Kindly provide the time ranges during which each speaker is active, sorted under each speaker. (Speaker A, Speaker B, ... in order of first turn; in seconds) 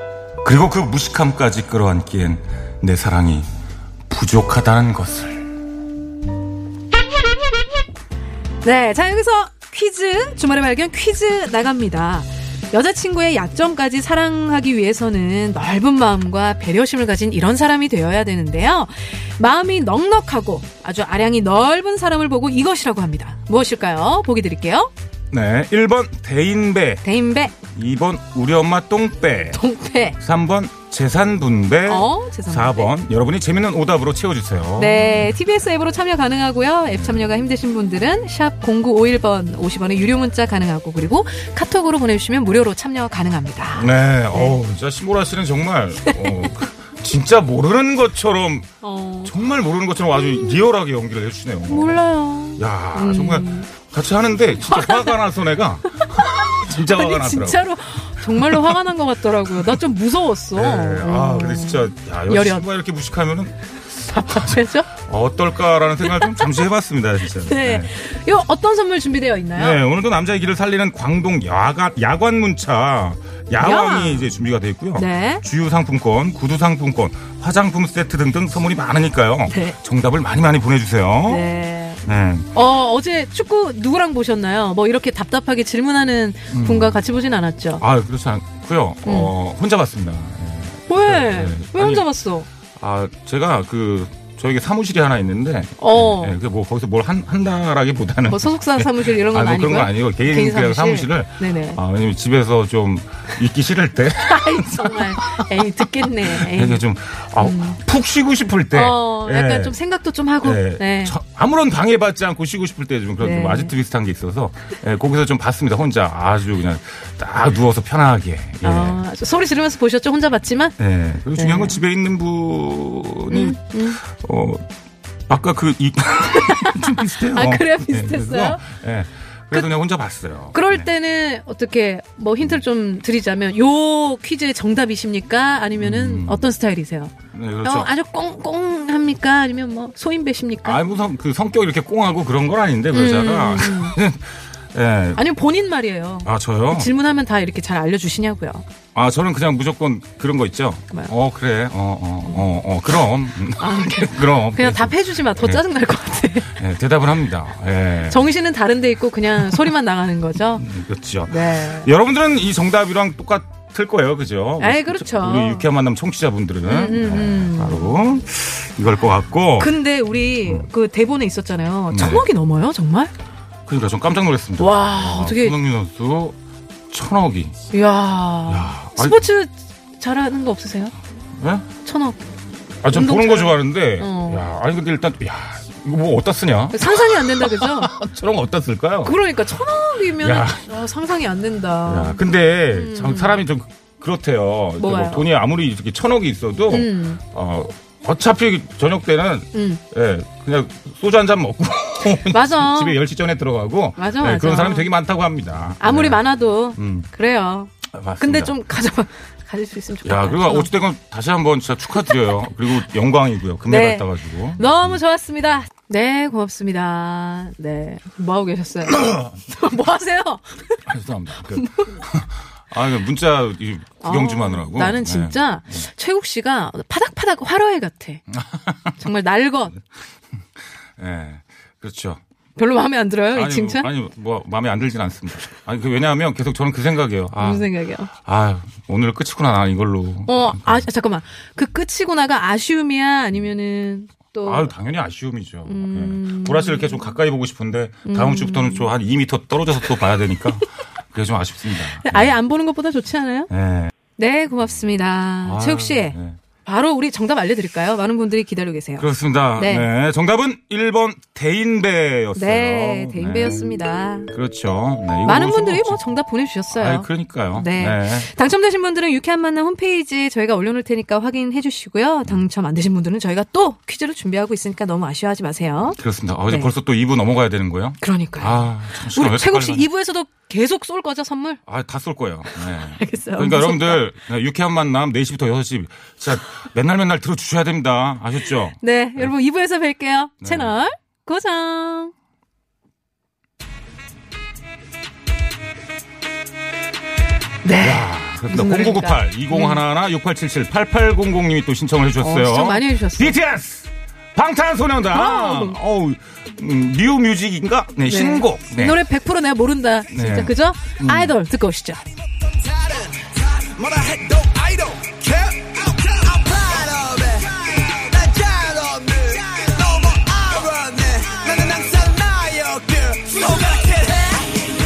Speaker A: 0.4-3.5, 4.1-5.5, 25.3-27.1, 27.8-29.7, 30.2-35.3, 36.9-37.3, 43.7-48.7, 49.2-52.0, 52.6-57.7, 58.3-58.8, 59.5-59.8, 60.5-63.6, 64.1-68.0, 69.5-81.5, 82.0-82.5, 86.5-87.0, 87.8-92.1, 92.8-105.5, 106.2-109.8, 110.4-119.0, 120.8-124.6, 125.3-130.9, 135.8-136.5, 137.3-137.9, 140.6-145.2, 146.2-146.9, 148.9-155.6, 156.5-158.3, 160.5-169.8, 171.9-172.3, 173.7-176.4, 176.9-177.5, 178.5-179.2, 181.4-181.7, 182.8-189.2, 190.1-190.7, 191.9-206.2, 206.8-207.1, 207.9-208.5, 210.1-215.0, 220.9-225.9, 228.3-229.0, 231.0-232.2, 233.3-237.7, 238.2-240.9, 244.4-252.4, 253.5-253.9, 255.4-256.4, 259.0-266.0, 266.7-268.3, 275.9-279.9, 281.7-289.3, 290.4-290.7, 297.8-309.0, 310.1-311.4
Speaker B: 8.6-24.9, 27.0-27.6, 29.5-30.2, 31.9-32.9, 34.8-44.6, 46.0-46.5, 48.8-49.4, 50.1-50.6, 51.7-53.7, 54.6-55.2, 55.9-62.6, 64.1-64.9, 66.0-66.7, 67.3-69.8, 73.6-74.3, 75.0-75.4, 79.5-79.8, 81.3-87.8, 89.0-89.3, 90.9-92.5, 95.8-96.4, 98.3-101.8, 104.2-106.8, 107.4-107.8, 108.7-111.2, 113.2-113.7, 118.6-120.8, 121.3-121.8, 123.3-124.0, 126.3-128.6, 130.5-140.8, 142.9-144.0, 145.2-148.7, 153.6-156.6, 158.1-160.7, 161.3-161.9, 164.6-165.7, 166.7-168.0, 169.6-173.1, 174.6-175.6, 177.7-180.9, 181.8-182.2, 182.9-184.5, 186.7-187.9, 189.0-193.4, 194.8-195.3, 196.7-197.2, 199.5-199.8, 202.3-203.0, 204.0-204.9, 205.8-210.7, 213.7-220.8, 221.5-222.0, 224.0-228.2, 229.0-229.8, 232.6-233.9, 237.4-238.1, 240.3-244.7, 245.7-247.2, 248.1-248.9, 251.9-253.5, 254.2-259.9, 262.4-264.3, 265.2-276.7, 278.0-281.6, 282.9-284.1, 288.8-292.1, 297.6-299.8, 302.2-303.4, 305.1-305.8, 308.1-312.0
Speaker C: 312.6-324.5